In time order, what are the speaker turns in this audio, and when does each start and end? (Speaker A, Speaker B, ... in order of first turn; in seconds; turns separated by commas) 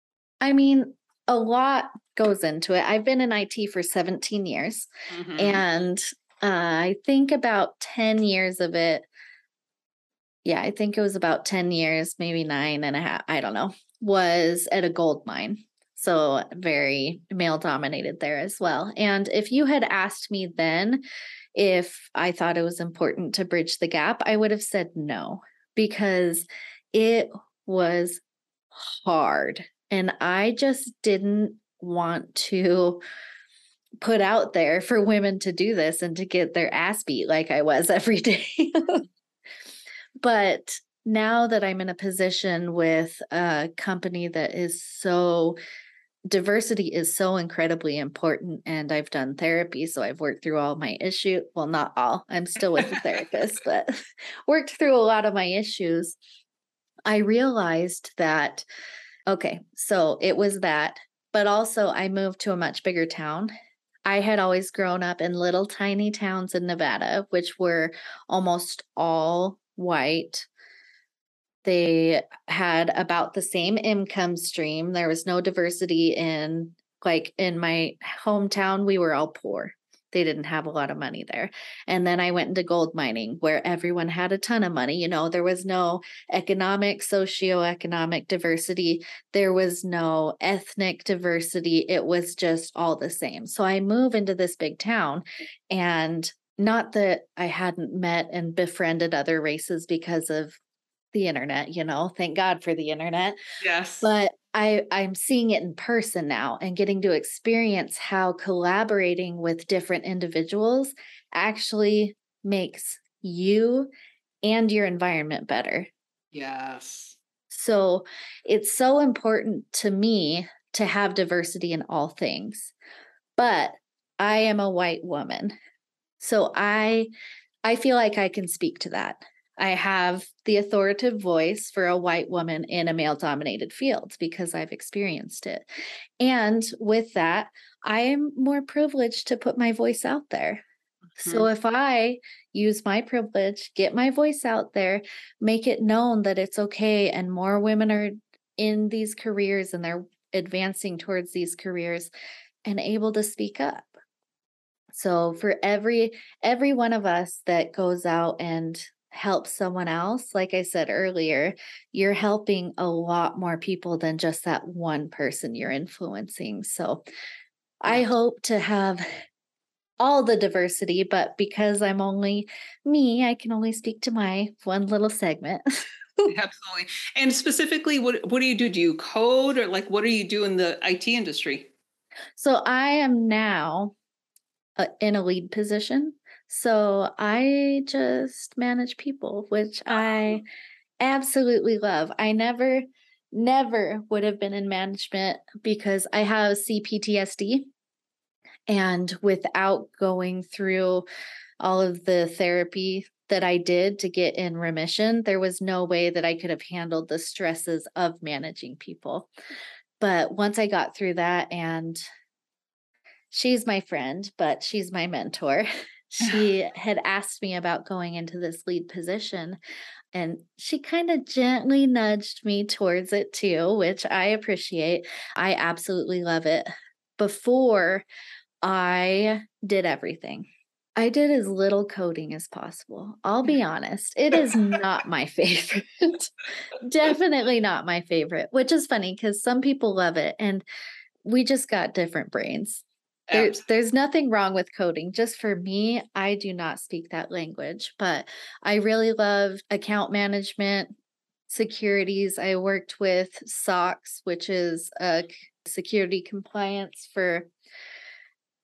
Speaker A: 0.4-9.1, Speaker B: 5.1-5.6, Speaker A: 10.4-21.0, Speaker A: 21.6-28.2, Speaker A: 28.8-33.0, Speaker A: 34.0-39.0, Speaker A: 40.2-45.6, Speaker A: 46.3-56.1, Speaker A: 57.1-58.6, Speaker A: 59.3-63.5, Speaker A: 64.0-70.5, Speaker A: 71.6-100.6, Speaker A: 101.1-103.4, Speaker B: 103.6-104.1, Speaker A: 104.0-113.9, Speaker A: 114.4-115.9, Speaker B: 116.3-117.2, Speaker A: 117.5-122.7, Speaker A: 123.4-125.5, Speaker A: 126.2-127.1, Speaker A: 127.6-135.6, Speaker A: 136.2-140.6, Speaker B: 141.2-141.5, Speaker A: 141.2-152.1, Speaker A: 152.6-154.0, Speaker A: 154.9-167.0, Speaker A: 167.8-169.0, Speaker A: 170.0-176.3, Speaker B: 176.3-181.7, Speaker A: 182.4-183.9, Speaker A: 184.8-190.4, Speaker A: 191.0-197.7, Speaker A: 198.7-201.0, Speaker A: 201.6-209.3, Speaker A: 210.0-212.0, Speaker A: 213.3-219.6, Speaker A: 220.1-228.1, Speaker A: 228.6-236.3, Speaker A: 236.8-240.6, Speaker A: 241.2-250.9, Speaker B: 243.3-243.6, Speaker A: 251.5-257.5